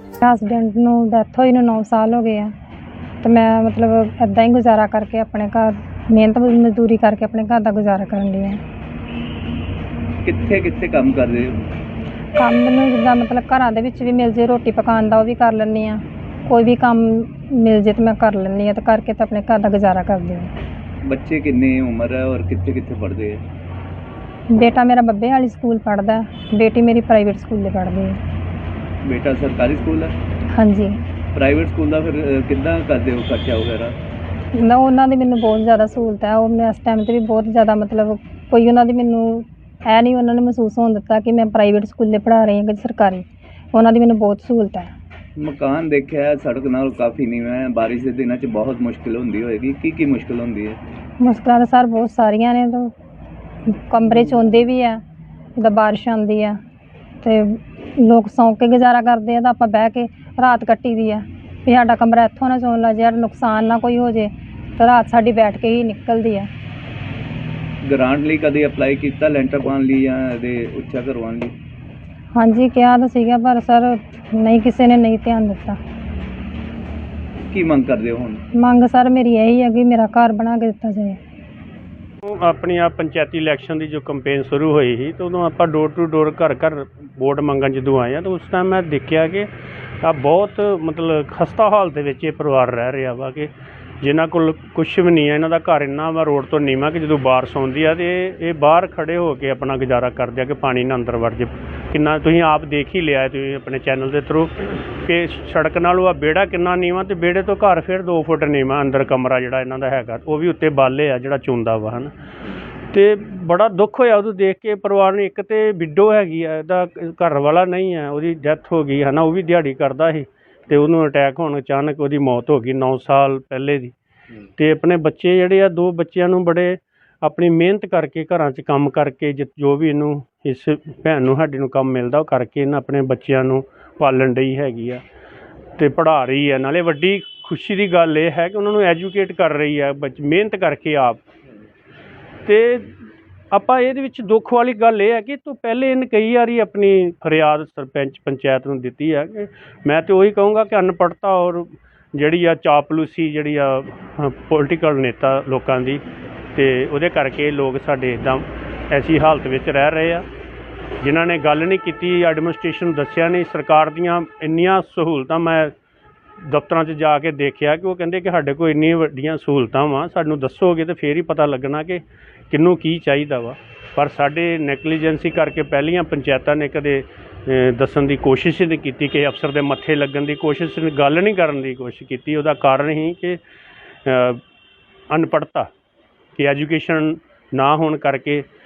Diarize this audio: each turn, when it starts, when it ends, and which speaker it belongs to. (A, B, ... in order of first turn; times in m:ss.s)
0:00.2-0:02.5 A
0:03.2-0:08.6 A
0:10.2-0:11.6 B
0:12.4-0:20.5 A
0:21.0-0:23.4 B
0:24.5-0:28.2 A
0:29.0-0:30.1 B
0:30.5-0:31.0 A
0:31.3-0:33.9 B
0:34.6-0:44.9 A
0:45.4-0:50.8 B
0:51.2-0:52.9 A
0:53.7-0:55.0 A
0:55.6-0:56.6 A
0:57.2-1:06.5 A
1:07.8-1:11.5 B
1:12.3-1:15.8 A
1:17.5-1:18.4 B
1:18.6-1:21.2 A
1:22.2-1:29.5 C
1:30.0-1:52.1 C
1:52.9-2:03.9 C
2:04.6-2:15.0 C
2:15.8-2:21.2 C
2:22.4-2:22.9 C
2:23.5-2:36.0 C
2:36.5-2:40.2 C
2:41.0-2:45.7 C
2:46.5-3:03.4 C
3:04.0-3:04.4 C
3:05.1-3:05.7 C
3:06.4-3:08.4 C